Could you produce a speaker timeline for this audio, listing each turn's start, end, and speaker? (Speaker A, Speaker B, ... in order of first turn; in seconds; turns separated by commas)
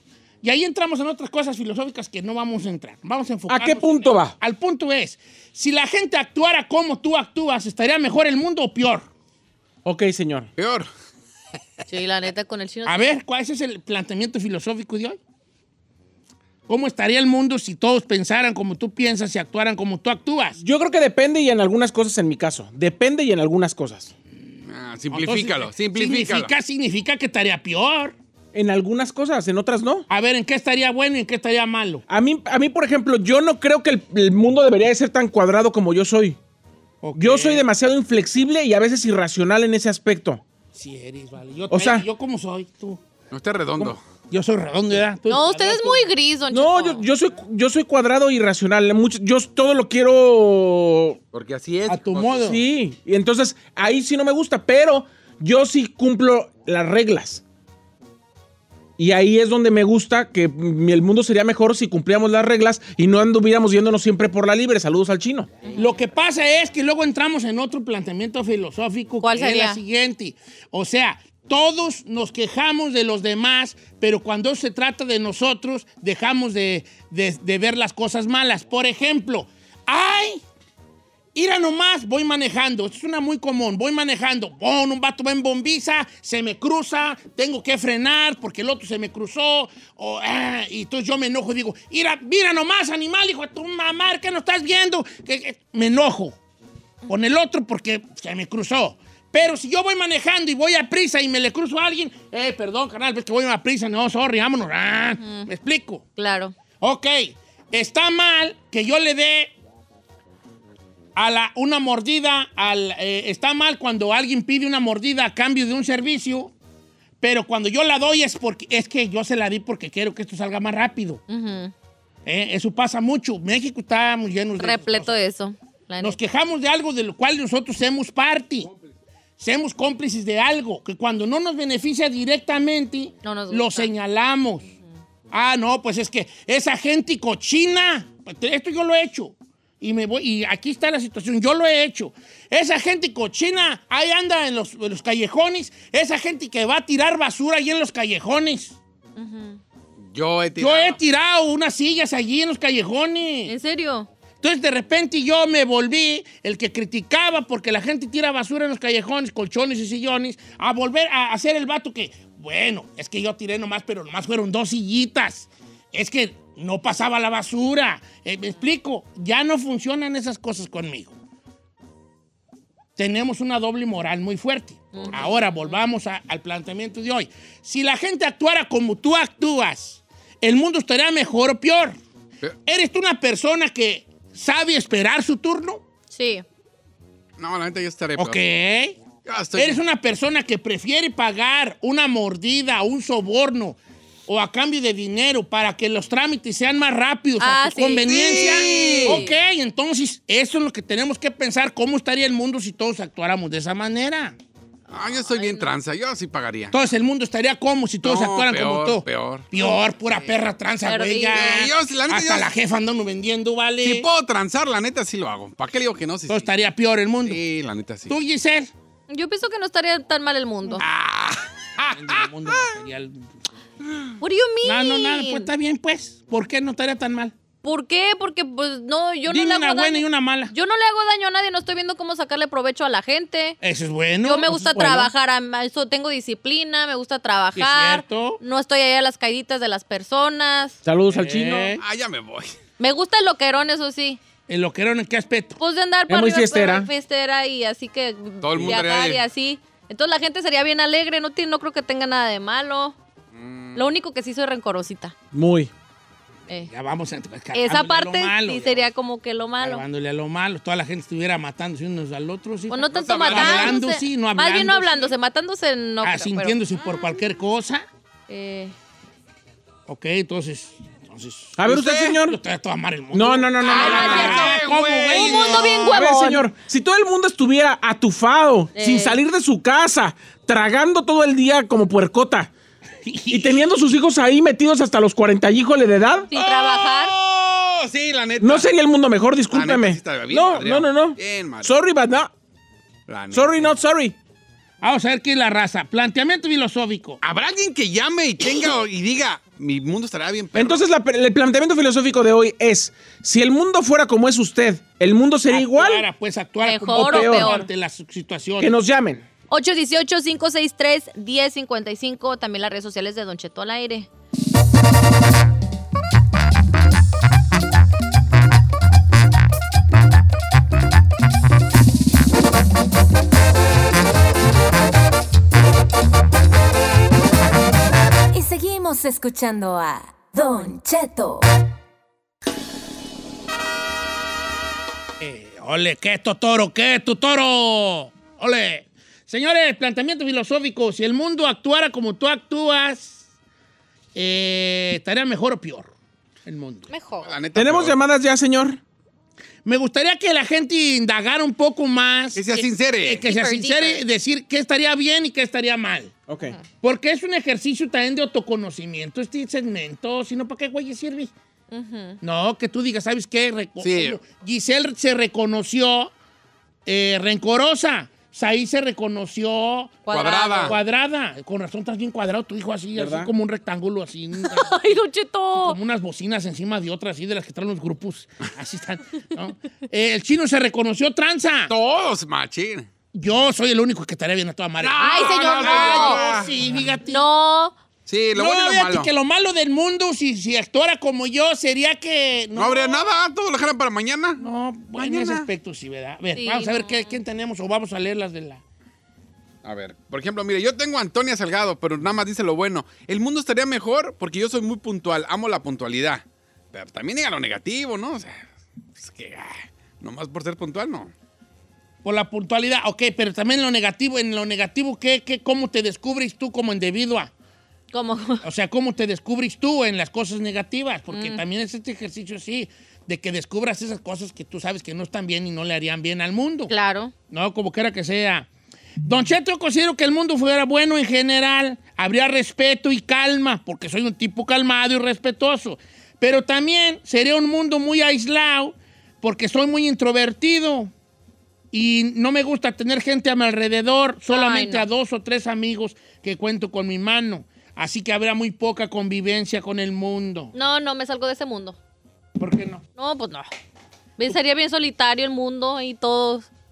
Speaker A: 0.4-9.1, Speaker B: 3.5-4.3, Speaker B: 9.8-10.5, Speaker C: 10.6-10.9, Speaker D: 11.9-13.1, Speaker A: 12.8-15.2, Speaker A: 16.7-20.6, Speaker B: 20.6-24.1, Speaker C: 24.7-26.5, Speaker A: 25.1-28.1, Speaker B: 28.5-30.1, Speaker A: 30.1-32.0, Speaker B: 32.1-36.4, Speaker A: 37.0-37.7, Speaker B: 37.1-40.4, Speaker A: 40.7-43.0, Speaker B: 41.7-42.0, Speaker C: 43.3-44.0, Speaker A: 43.8-46.1, Speaker D: 45.3-47.0, Speaker B: 46.5-51.2, Speaker C: 51.3-52.4, Speaker A: 51.9-52.6, Speaker B: 52.4-57.4, Speaker B: 59.0-65.5, Speaker D: 65.6-65.9, Speaker A: 65.8-80.4, Speaker D: 69.2-69.8, Speaker A: 81.3-96.4, Speaker A: 97.1-106.0, Speaker D: 105.2-105.5, Speaker D: 106.2-106.5, Speaker A: 106.8-109.5, Speaker A: 111.2-116.5, Speaker A: 117.2-121.2, Speaker D: 121.3-121.7, Speaker A: 122.2-125.1, Speaker D: 124.6-126.2, Speaker A: 126.0-128.7, Speaker A: 129.4-134.7, Speaker D: 133.2-133.9, Speaker A: 135.3-148.8, Speaker D: 149.2-149.6, Speaker C: 150.0-151.0, Speaker A: 150.6-153.5, Speaker D: 153.5-154.1, Speaker A: 154.4-171.2, Speaker A: 173.0-182.0, Speaker D: 174.9-175.8, Speaker A: 182.7-185.8, Speaker D: 186.1-186.4, Speaker C: 187.4-188.4, Speaker A: 188.2-189.0, Speaker C: 189.2-189.8, Speaker A: 189.5-204.3, Speaker D: 197.4-199.3, Speaker C: 198.1-199.2, Speaker D: 204.9-205.7, Speaker C: 204.9-206.7, Speaker A: 206.7-214.1, Speaker C: 208.0-210.3, Speaker D: 210.8-211.6, Speaker C: 211.3-212.5, Speaker C: 213.8-216.5, Speaker A: 216.3-217.4, Speaker C: 217.2-218.2, Speaker A: 218.1-218.7, Speaker D: 219.1-220.8, Speaker C: 220.8-222.7, Speaker A: 221.9-223.3, Speaker D: 224.2-225.5, Speaker A: 224.6-227.3, Speaker D: 227.6-233.6, Speaker A: 229.3-230.5, Speaker A: 233.6-235.0, Speaker D: 234.2-240.8, Speaker B: 234.7-235.1, Speaker A: 237.5-238.4, Speaker B: 240.8-241.8, Speaker A: 241.1-241.8, Speaker C: 241.8-242.5, Speaker D: 242.8-244.2, Speaker A: 244.5-245.6, Speaker D: 245.6-253.0, Speaker B: 246.1-246.9, Speaker C: 248.4-249.2, Speaker C: 253.3-253.9, Speaker D: 253.7-255.1, Speaker B: 255.3-255.7, Speaker A: 256.7-258.9, Speaker D: 257.5-259.8, Speaker A: 259.6-265.1, Speaker D: 262.7-266.6, Speaker C: 262.9-263.8, Speaker A: 266.0-267.8, Speaker D: 268.3-268.7, Speaker A: 269.9-275.9, Speaker B: 271.6-272.4, Speaker C: 271.7-272.0, Speaker B: 273.1-274.5, Speaker D: 273.7-276.4, Speaker C: 273.7-275.7, Speaker B: 275.7-282.5, Speaker D: 278.7-279.2, Speaker A: 283.0-283.6, Speaker B: 283.3-286.3, Speaker D: 286.3-287.1, Speaker C: 286.3-288.7, Speaker B: 288.4-292.3, Speaker C: 289.5-291.7, Speaker C: 293.1-293.6, Speaker B: 293.3-294.1, Speaker A: 294.8-297.2, Speaker C: 297.2-300.8, Speaker B: 300.5-306.1, Speaker A: 305.5-308.7, Speaker D: 306.6-307.7, Speaker B: 306.9-307.5, Speaker B: 308.6-309.2, Speaker D: 309.5-314.1, Speaker E: 328.3-331.4, Speaker A: 335.2-343.2, Speaker A: 344.1-345.9, Speaker A: 346.4-346.9, Speaker D: 346.9-347.3, Speaker C: 347.2-348.0, Speaker B: 347.5-348.8, Speaker A: 349.6-356.1, Speaker C: 352.3-353.2, Speaker D: 353.2-354.0, Speaker B: 356.3-356.6, Speaker A: 356.8-361.3, Speaker D: 361.7-362.2, Speaker A: 362.2-366.1, Speaker C: 363.8-364.2, Speaker A: 366.9-369.9, Speaker D: 370.1-370.8, Speaker C: 370.1-370.8, Speaker A: 370.6-375.0, Speaker B: 372.9-373.3, Speaker D: 374.4-375.8, Speaker A: 375.5-381.7, Speaker C: 381.7-382.9, Speaker A: 383.1-387.2, Speaker C: 384.8-386.6, Speaker D: 385.0-386.2, Speaker D: 387.1-387.7, Speaker C: 388.1-389.1, Speaker A: 388.3-393.1, Speaker C: 392.5-394.4, Speaker A: 394.4-398.6, Speaker C: 394.9-395.5, Speaker D: 396.3-397.1, Speaker C: 399.6-411.1, Speaker A: 412.0-417.3, Speaker D: 417.9-418.4, Speaker A: 418.4-426.7, Speaker D: 421.1-421.4, Speaker D: 426.7-427.1, Speaker A: 427.3-428.5, Speaker A: 429.0-440.9, Speaker A: 441.7-450.5, Speaker D: 444.3-444.8, Speaker D: 450.5-451.8, Speaker A: 452.4-452.8, Speaker D: 453.0-453.5, Speaker D: 454.2-456.5